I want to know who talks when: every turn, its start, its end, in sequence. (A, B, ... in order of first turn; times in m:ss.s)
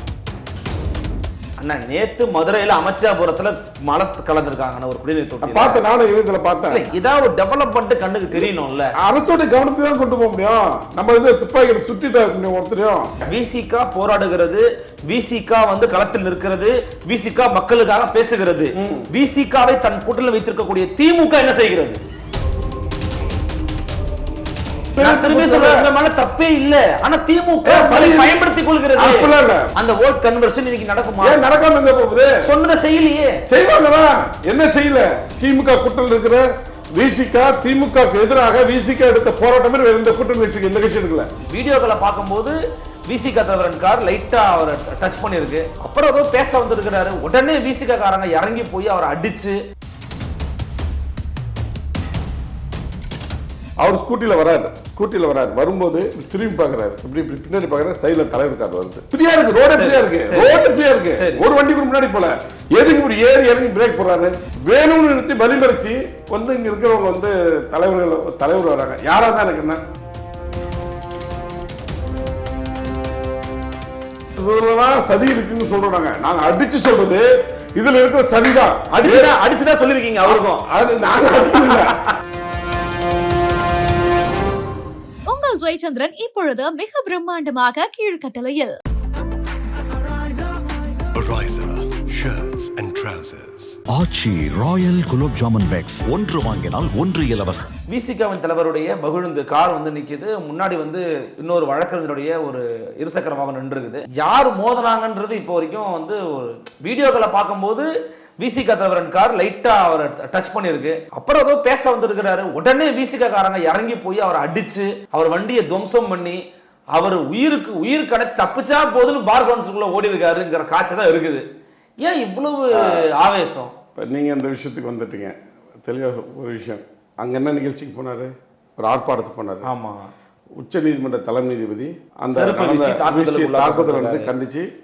0:01.6-0:05.8 A
0:05.4-0:06.8 B
0:06.7-0:08.9 A
0:09.0-0:13.3 B
0:13.3-0:22.0 A
0:18.8-0:19.1 B
0:25.0-0:25.9 B
0:25.0-0:31.4 A
0:27.6-0:28.4 B
0:29.0-0:29.7 B
0:31.2-0:32.4 B
0:32.4-0:33.4 A
0:33.5-0:41.3 B
0:41.5-0:42.6 A
0:43.1-0:49.6 A
0:53.8-1:09.8 B
0:59.7-1:00.6 A
1:01.2-1:01.4 A
1:14.4-1:19.4 B
1:18.9-1:20.6 A
1:20.2-1:22.0 B
1:21.6-1:22.0 A
1:25.3-1:28.8 C
1:31.1-1:33.8 D
1:33.9-1:37.7 E
1:37.9-1:47.9 A
1:48.4-1:56.4 A
1:56.9-2:01.4 A
2:02.0-2:03.7 A
2:02.8-2:03.0 B
2:04.0-2:09.7 B
2:09.6-2:10.1 A
2:10.6-2:14.7 B
2:12.3-2:14.3 A